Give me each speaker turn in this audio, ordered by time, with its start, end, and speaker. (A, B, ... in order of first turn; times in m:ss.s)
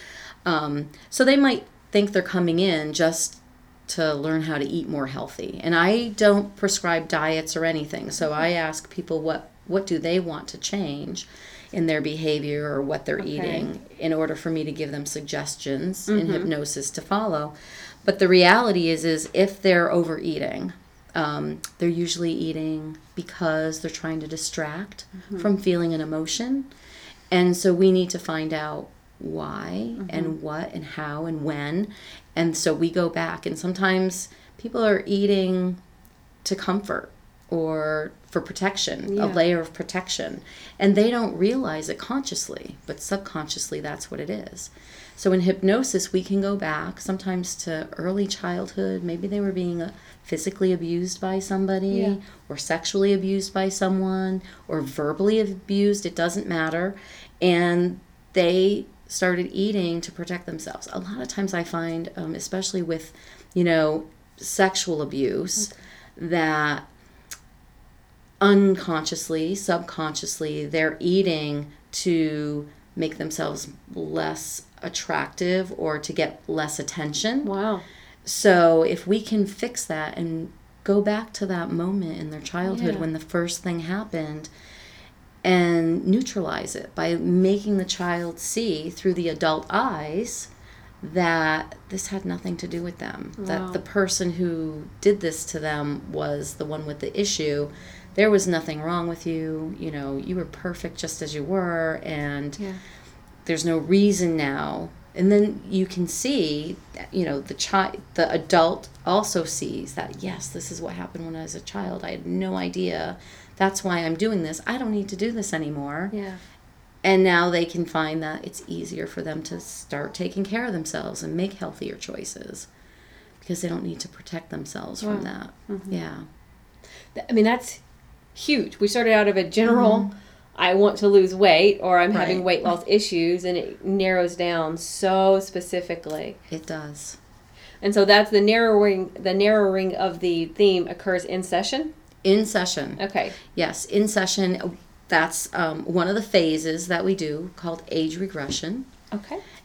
0:00.4-0:26.7 A
0:13.2-0:13.7 B
0:16.1-0:16.5 B
0:25.2-0:25.5 B
0:27.3-0:35.8 A
0:30.0-0:30.3 B
0:36.4-1:06.9 A
0:39.1-0:39.4 B
0:51.9-0:52.2 B
1:08.4-1:17.5 A
1:17.4-1:17.8 B
1:18.2-1:24.5 A
1:22.7-1:23.1 B
1:25.4-1:30.5 A
1:31.0-1:42.6 A
1:33.4-1:33.8 B
1:43.5-1:56.1 A
1:56.1-1:56.4 B
1:57.0-2:02.7 A
2:03.4-2:06.3 A
2:05.0-2:06.0 B
2:07.2-2:07.8 B
2:08.4-2:16.4 B
2:09.7-2:10.1 A
2:12.1-2:12.7 A
2:16.5-2:17.2 A
2:17.8-2:21.9 B
2:22.2-2:28.9 A
2:23.0-2:23.4 B
2:29.1-2:29.4 B